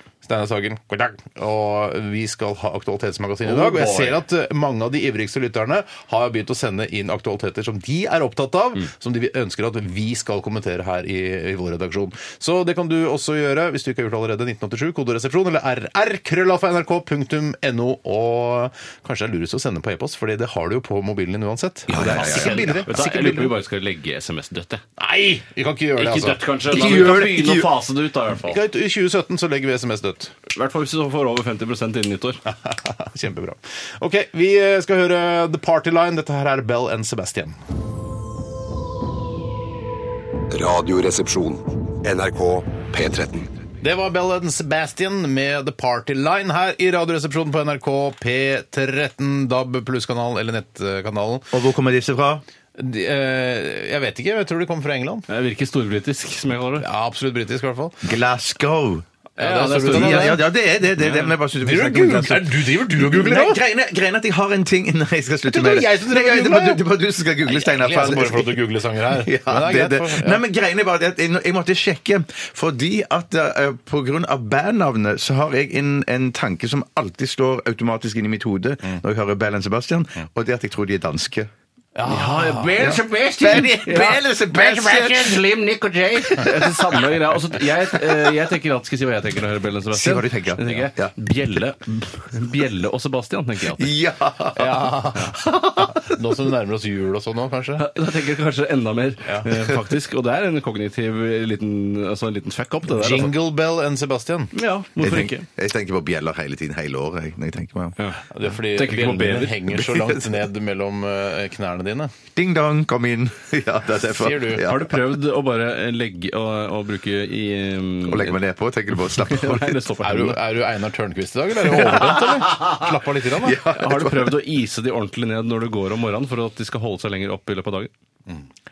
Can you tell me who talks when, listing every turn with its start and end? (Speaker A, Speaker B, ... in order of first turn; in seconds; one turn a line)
Speaker A: 0.2-23.5
Speaker B: 3.4-4.2
Speaker C: 21.9-22.8
Speaker B: 21.9-24.8
Speaker A: 25.0-27.2
Speaker B: 26.0-28.6
Speaker C: 26.7-27.7
Speaker A: 28.5-30.3
Speaker B: 30.5-32.4
Speaker A: 32.6-37.5
Speaker D: 40.5-43.5
Speaker A: 43.8-51.5
Speaker C: 51.5-52.4
Speaker A: 52.8-55.2
Speaker B: 55.3-56.8
Speaker A: 56.8-58.0
Speaker C: 58.0-59.0
Speaker A: 59.4-60.4
Speaker B: 59.4-60.5
Speaker C: 59.6-81.5
Speaker B: 61.0-61.3
Speaker A: 61.6-63.6
Speaker A: 65.5-66.8
Speaker A: 67.4-70.4
Speaker A: 82.0-83.0
Speaker B: 82.1-84.2
Speaker C: 82.8-85.6
Speaker B: 84.9-85.5
Speaker C: 86.1-87.1
Speaker B: 86.1-93.9
Speaker C: 89.9-91.1
Speaker C: 93.7-96.1
Speaker A: 94.5-97.8
Speaker B: 97.8-103.4
Speaker A: 102.9-104.5
Speaker B: 104.5-105.4
Speaker C: 105.0-108.0
Speaker B: 108.0-109.7
Speaker A: 108.3-112.1
Speaker C: 109.7-110.2
Speaker C: 112.3-115.1
Speaker A: 114.1-114.7
Speaker B: 114.6-118.4
Speaker C: 118.0-119.8
Speaker B: 119.0-120.4
Speaker A: 120.0-123.6
Speaker B: 121.8-122.7
Speaker C: 123.4-124.4
Speaker B: 123.7-127.9